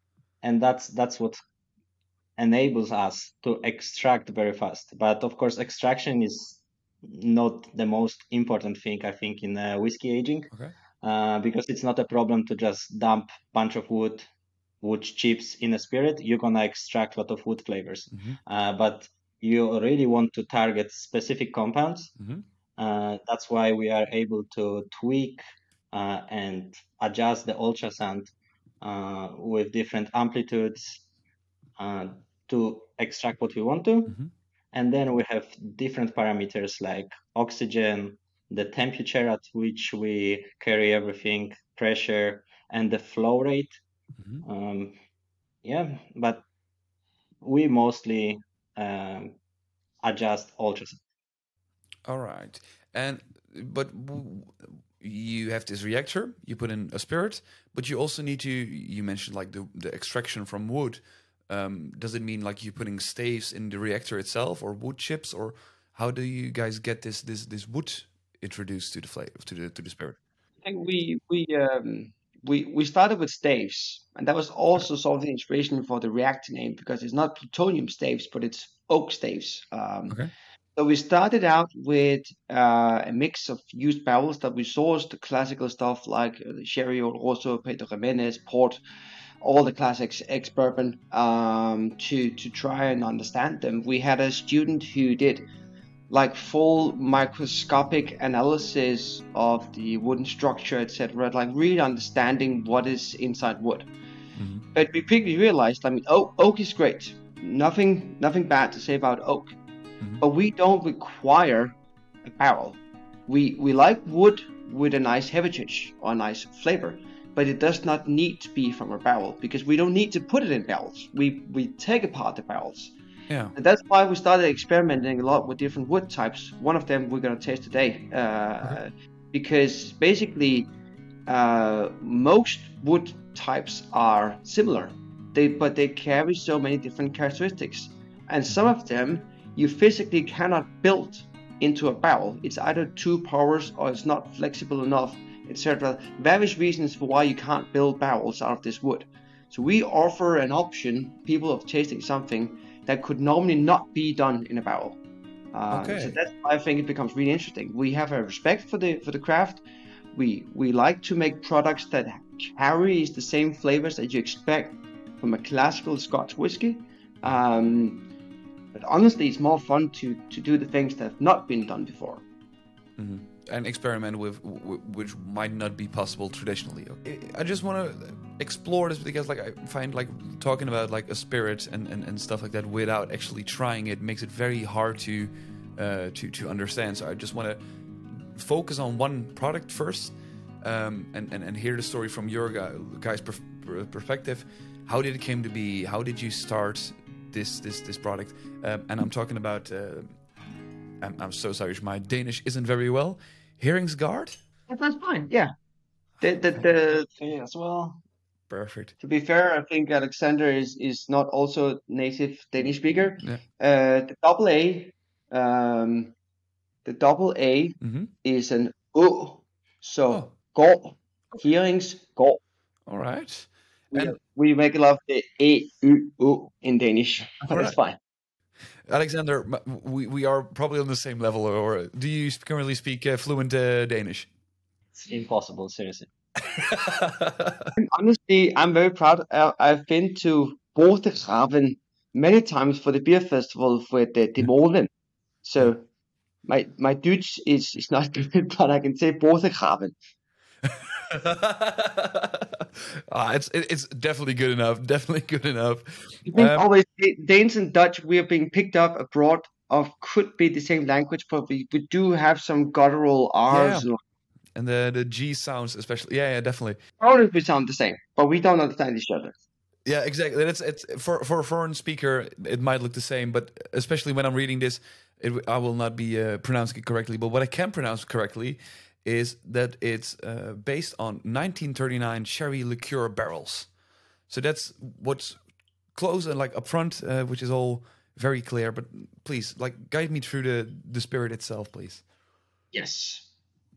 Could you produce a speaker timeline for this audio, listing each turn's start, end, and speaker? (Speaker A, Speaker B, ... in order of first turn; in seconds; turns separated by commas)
Speaker A: 0.4-1.4, Speaker A: 2.4-10.5, Speaker A: 11.0-14.3, Speaker A: 14.8-22.1, Speaker B: 18.1-18.4, Speaker B: 22.2-22.4, Speaker A: 22.8-31.0, Speaker A: 31.8-34.2, Speaker A: 34.7-43.8, Speaker B: 44.2-44.5, Speaker A: 44.4-45.0, Speaker A: 45.6-46.4, Speaker A: 47.4-49.4, Speaker A: 50.0-51.0, Speaker B: 52.1-70.2, Speaker C: 70.6-80.2, Speaker C: 80.8-88.8, Speaker C: 89.4-95.5, Speaker C: 96.1-103.9, Speaker B: 104.4-104.7, Speaker C: 104.7-109.5, Speaker C: 110.2-111.7, Speaker C: 112.2-122.9, Speaker C: 123.5-130.7, Speaker C: 131.3-155.0, Speaker C: 155.5-159.6, Speaker B: 155.7-156.2, Speaker C: 160.1-168.1, Speaker C: 168.7-172.2, Speaker B: 173.0-200.2, Speaker B: 201.0-204.4, Speaker C: 204.7-205.5, Speaker C: 206.2-207.1, Speaker A: 207.0-208.0, Speaker B: 208.5-208.9, Speaker C: 209.0-216.1, Speaker C: 216.8-222.4, Speaker B: 217.8-218.1, Speaker B: 222.9-224.2, Speaker C: 223.9-228.0, Speaker B: 227.5-227.8, Speaker B: 228.9-234.3, Speaker A: 234.9-236.1, Speaker B: 236.5-237.7, Speaker C: 237.8-244.9, Speaker C: 245.4-245.8, Speaker C: 246.4-249.9, Speaker B: 250.7-256.6, Speaker C: 256.3-264.0, Speaker B: 263.5-263.9, Speaker B: 264.6-266.8, Speaker C: 267.0-269.4, Speaker B: 269.9-283.7, Speaker B: 284.3-285.4, Speaker B: 285.9-292.0, Speaker C: 292.7-293.3